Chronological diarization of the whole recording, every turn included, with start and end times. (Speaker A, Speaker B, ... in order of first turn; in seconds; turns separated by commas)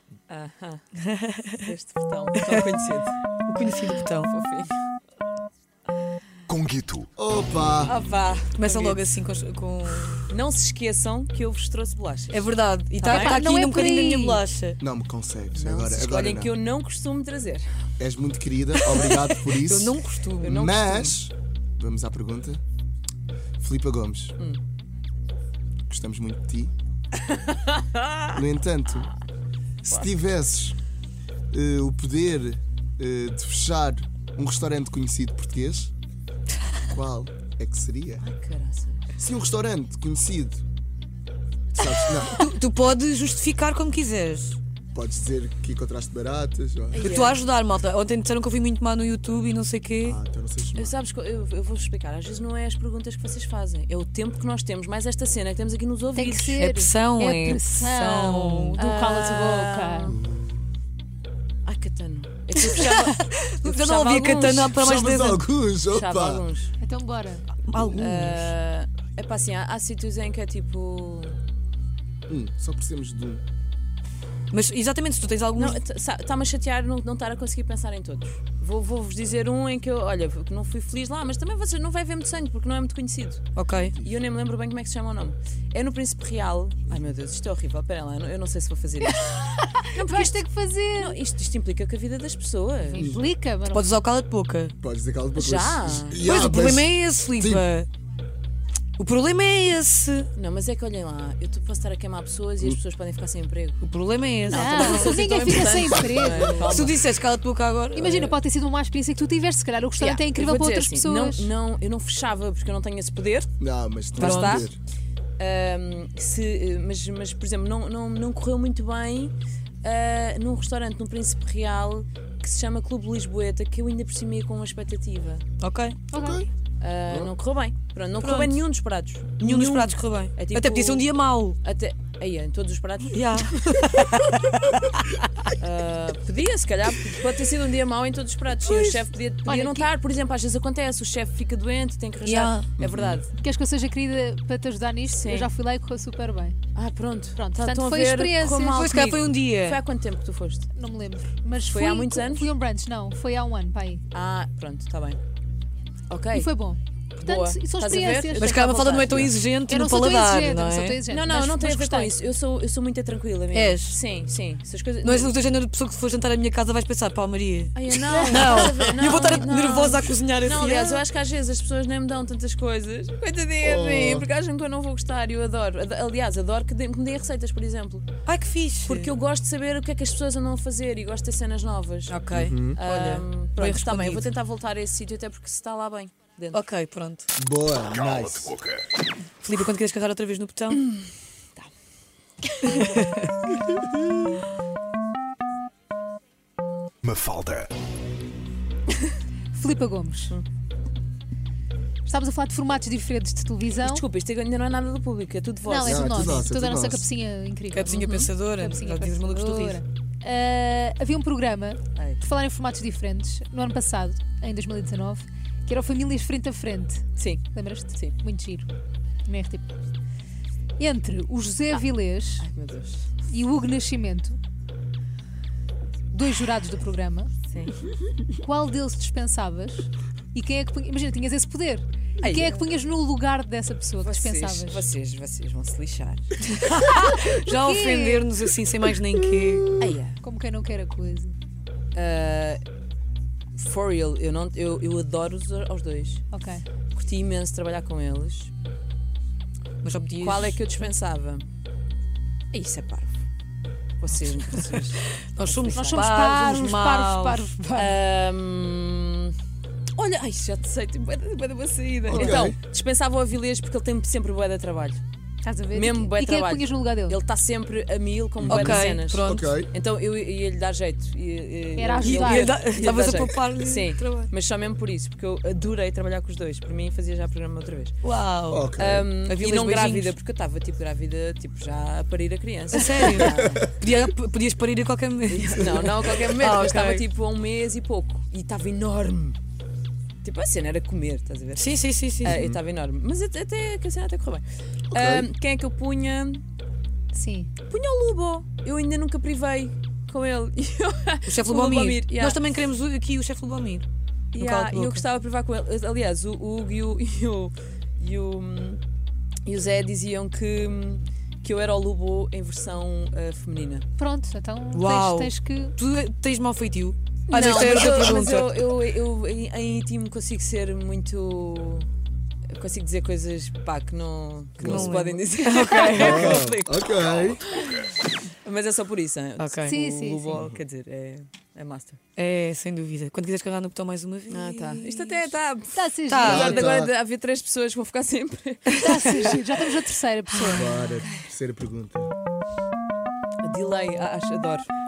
Speaker A: 0.3-0.8, Speaker B: 1.0-1.7, Speaker A: 1.6-3.1, Speaker B: 3.5-4.3, Speaker A: 4.2-4.7, Speaker C: 6.5-7.1, Speaker D: 7.2-8.0, Speaker A: 7.8-9.0, Speaker B: 8.5-10.3, Speaker A: 10.3-13.5, Speaker B: 12.3-14.8, Speaker E: 13.0-14.4, Speaker D: 14.8-16.5, Speaker A: 15.5-17.7, Speaker D: 18.0-22.6, Speaker B: 19.4-20.6, Speaker A: 20.4-21.1, Speaker D: 23.6-24.4, Speaker D: 25.9-26.7, Speaker A: 27.3-28.4, Speaker D: 28.3-29.1, Speaker D: 29.8-30.8, Speaker D: 31.5-35.9, Speaker D: 36.9-38.2, Speaker A: 38.2-39.1, Speaker D: 39.2-40.6, Speaker D: 41.8-42.5, Speaker B: 42.0-44.6, Speaker D: 44.9-47.2, Speaker B: 47.0-50.2, Speaker E: 47.0-47.4, Speaker A: 47.0-47.3, Speaker D: 50.0-50.9, Speaker A: 50.7-56.8, Speaker E: 56.1-60.1, Speaker B: 56.6-58.8, Speaker A: 58.8-60.2, Speaker D: 60.0-60.6, Speaker A: 61.6-64.8, Speaker B: 62.6-65.5, Speaker D: 64.7-66.4, Speaker A: 65.9-66.7, Speaker E: 66.8-67.5, Speaker B: 67.6-68.4, Speaker A: 68.0-71.4, Speaker D: 72.3-73.4, Speaker B: 74.5-75.8, Speaker A: 75.5-83.4, Speaker B: 83.5-84.0, Speaker A: 84.0-89.4, Speaker E: 89.2-91.2, Speaker A: 89.9-93.0, Speaker E: 92.8-93.9, Speaker B: 93.7-94.7, Speaker D: 94.8-97.6, Speaker A: 95.3-96.3, Speaker B: 96.2-97.9, Speaker B: 99.0-100.3, Speaker A: 100.3-103.8, Speaker B: 103.8-105.8, Speaker A: 104.5-107.0, Speaker E: 104.5-106.7, Speaker B: 106.4-108.1, Speaker E: 107.9-111.5, Speaker A: 108.0-108.4, Speaker A: 110.0-113.5, Speaker D: 113.6-114.8, Speaker A: 114.1-114.7, Speaker B: 114.2-114.7, Speaker A: 115.4-125.4, Speaker B: 125.6-126.0, Speaker E: 126.1-126.4, Speaker D: 126.1-126.5, Speaker A: 126.8-131.1, Speaker B: 128.2-128.6, Speaker B: 129.4-131.6, Speaker A: 131.6-133.5, Speaker B: 133.1-135.2, Speaker A: 135.6-143.3, Speaker B: 138.7-138.9, Speaker E: 139.4-139.9, Speaker B: 142.2-142.7, Speaker D: 142.8-143.2, Speaker E: 143.4-146.6, Speaker A: 145.1-145.5, Speaker A: 146.7-150.7, Speaker E: 147.3-148.9, Speaker B: 148.7-149.8, Speaker E: 150.7-154.0, Speaker A: 151.7-152.5, Speaker A: 154.1-155.2, Speaker A: 156.1-156.6, Speaker E: 156.3-162.2, Speaker A: 157.2-159.2, Speaker B: 158.4-161.0, Speaker A: 161.1-165.3, Speaker B: 163.5-164.0, Speaker B: 165.0-171.0, Speaker A: 167.7-178.1, Speaker E: 168.0-169.4, Speaker D: 173.6-174.3, Speaker B: 178.2-179.1, Speaker A: 178.8-182.1, Speaker B: 182.1-184.3, Speaker D: 182.3-182.8, Speaker A: 182.7-186.6, Speaker B: 186.5-187.3, Speaker D: 187.4-188.5, Speaker C: 187.9-188.8, Speaker B: 189.4-190.8, Speaker A: 192.5-193.0, Speaker B: 192.7-193.3, Speaker C: 197.0-197.7, Speaker E: 199.5-200.3, Speaker E: 202.1-204.0, Speaker A: 203.8-206.4, Speaker E: 205.6-218.7, Speaker D: 205.8-207.1, Speaker B: 207.7-209.8, Speaker A: 207.9-208.3, Speaker A: 211.9-212.2, Speaker A: 217.2-218.2, Speaker E: 219.2-219.7, Speaker E: 220.8-222.5, Speaker A: 222.4-223.3, Speaker E: 223.3-224.4, Speaker E: 226.1-227.3, Speaker A: 227.5-227.8, Speaker E: 228.3-234.8, Speaker A: 232.2-232.7, Speaker A: 234.0-236.4, Speaker B: 236.4-239.8, Speaker E: 237.5-238.3, Speaker A: 239.8-240.2, Speaker E: 240.1-241.3, Speaker A: 241.9-242.6, Speaker A: 243.6-246.2, Speaker E: 246.3-246.6, Speaker A: 246.9-248.5, Speaker B: 249.8-250.6, Speaker A: 250.2-251.4, Speaker A: 252.5-253.2, Speaker A: 254.0-256.1, Speaker B: 255.2-257.5, Speaker E: 255.7-258.0, Speaker A: 257.7-259.3, Speaker A: 259.9-265.0, Speaker D: 262.1-262.6, Speaker E: 262.1-262.4, Speaker E: 265.4-267.2, Speaker A: 265.7-277.9, Speaker D: 268.4-269.7, Speaker B: 268.4-269.5, Speaker E: 271.8-272.6, Speaker B: 272.0-274.3, Speaker B: 278.0-278.7, Speaker D: 278.5-279.1, Speaker A: 278.8-283.7, Speaker B: 279.2-280.1, Speaker B: 282.7-287.0, Speaker A: 285.3-289.4, Speaker A: 290.2-296.4, Speaker B: 291.5-292.4, Speaker D: 292.2-292.6, Speaker D: 294.9-295.3, Speaker E: 297.1-297.5, Speaker A: 297.6-302.5, Speaker B: 301.2-305.0, Speaker A: 304.3-308.8, Speaker A: 309.4-313.9, Speaker E: 314.0-315.8, Speaker B: 314.7-318.6, Speaker A: 317.3-321.9, Speaker A: 322.5-326.9, Speaker D: 324.6-325.0, Speaker B: 324.6-326.4, Speaker D: 325.9-327.4, Speaker A: 327.4-327.8, Speaker A: 328.4-332.0, Speaker B: 329.4-329.8, Speaker E: 329.6-330.4, Speaker B: 332.1-335.3, Speaker A: 334.3-339.6, Speaker E: 335.7-336.7, Speaker B: 336.1-336.6, Speaker D: 336.2-336.9, Speaker B: 338.7-339.1, Speaker E: 338.7-340.8, Speaker D: 340.5-342.1, Speaker A: 343.4-344.7